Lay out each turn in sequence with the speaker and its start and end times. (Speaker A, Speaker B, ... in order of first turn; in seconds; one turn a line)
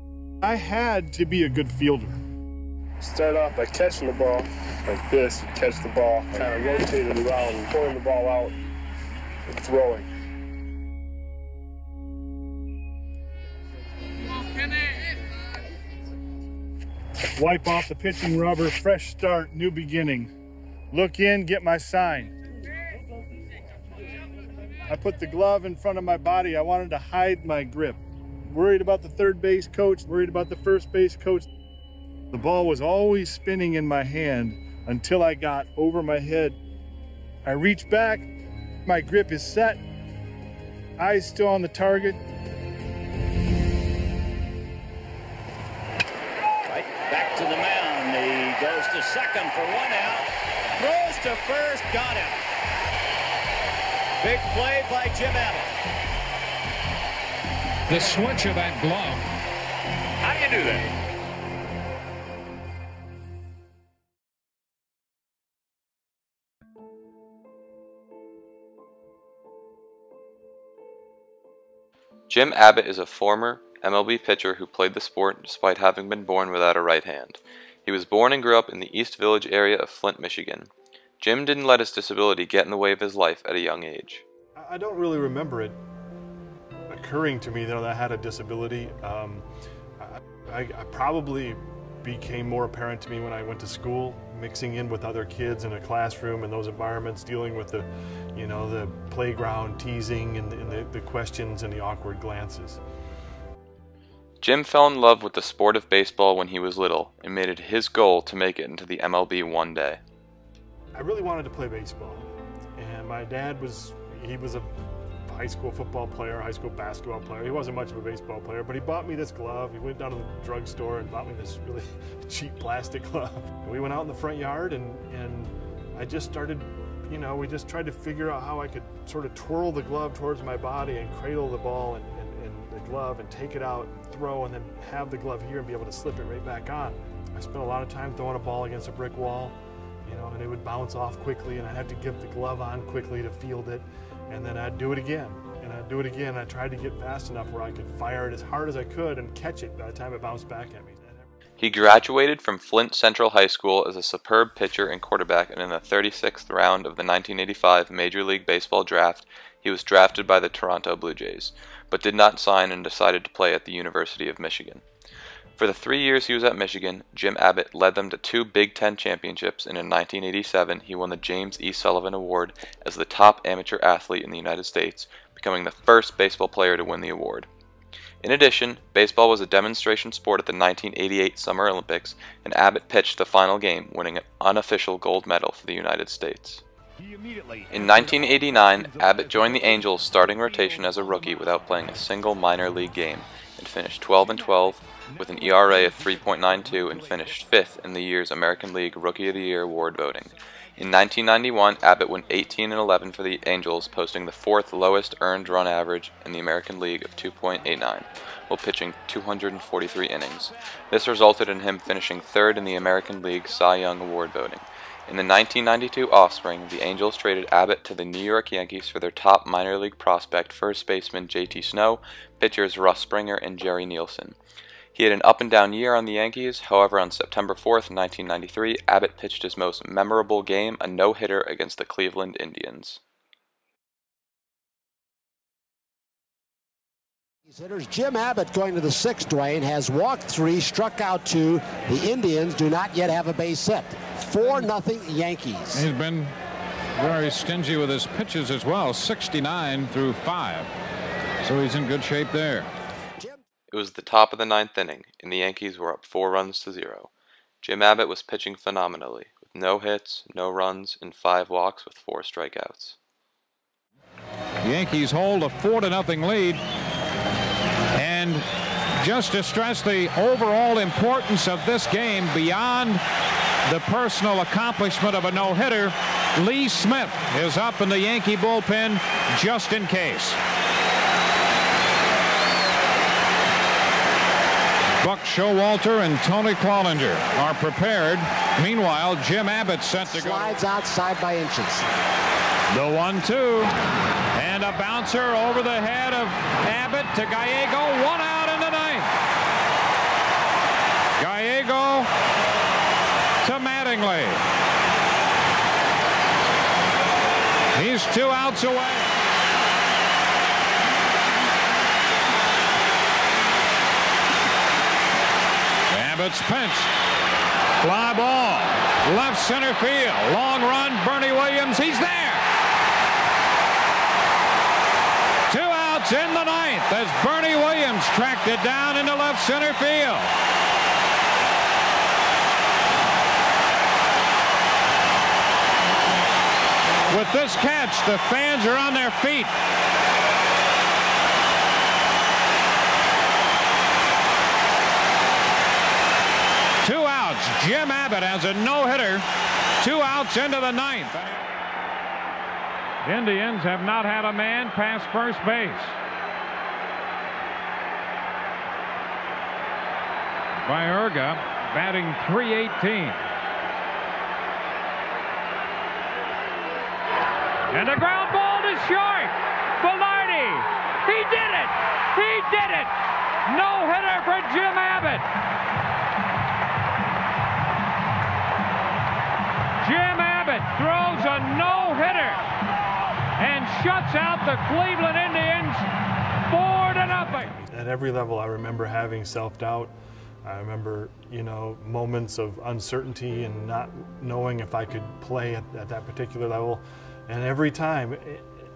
Speaker A: 0.4-2.1
Speaker B: 3.0-8.5
Speaker B: 9.6-10.1
Speaker A: 17.4-20.3
Speaker A: 20.9-22.3
Speaker A: 24.9-31.5
Speaker A: 32.3-36.6
Speaker A: 37.5-38.3
Speaker A: 38.9-39.8
Speaker A: 41.0-42.2
Speaker C: 46.7-52.4
Speaker C: 54.2-55.7
Speaker D: 57.9-59.3
Speaker C: 60.2-60.9
Speaker E: 72.3-84.2
Speaker A: 84.6-85.8
Speaker A: 86.9-89.5
Speaker A: 90.0-102.8
Speaker E: 104.4-110.0
Speaker A: 111.0-114.7
Speaker A: 115.3-151.3
Speaker E: 151.6-164.8
Speaker E: 165.6-177.5
Speaker E: 178.2-186.6
Speaker E: 187.7-224.4
Speaker E: 224.9-233.0
Speaker F: 237.5-245.9
Speaker D: 245.7-246.3
Speaker D: 247.0-250.7
Speaker D: 251.4-252.7
Speaker E: 253.7-257.1
Speaker E: 257.6-263.0
Speaker D: 264.6-266.6
Speaker D: 268.0-268.4
Speaker D: 269.0-273.0
Speaker D: 273.7-280.4
Speaker D: 285.0-290.6
Speaker F: 290.1-291.9
Speaker D: 292.7-293.7
Speaker D: 294.4-299.1
Speaker D: 301.2-302.1
Speaker D: 303.4-304.4
Speaker D: 307.8-309.0
Speaker D: 315.9-316.9
Speaker D: 317.8-322.4
Speaker D: 325.5-330.3
Speaker D: 337.1-339.5
Speaker D: 346.8-349.2
Speaker D: 349.8-351.4
Speaker D: 353.0-356.0
Speaker D: 360.6-363.2
Speaker D: 367.7-372.9
Speaker D: 373.5-375.3
Speaker D: 379.8-382.4
Speaker D: 383.4-385.9
Speaker D: 386.5-387.5
Speaker A: 386.8-398.5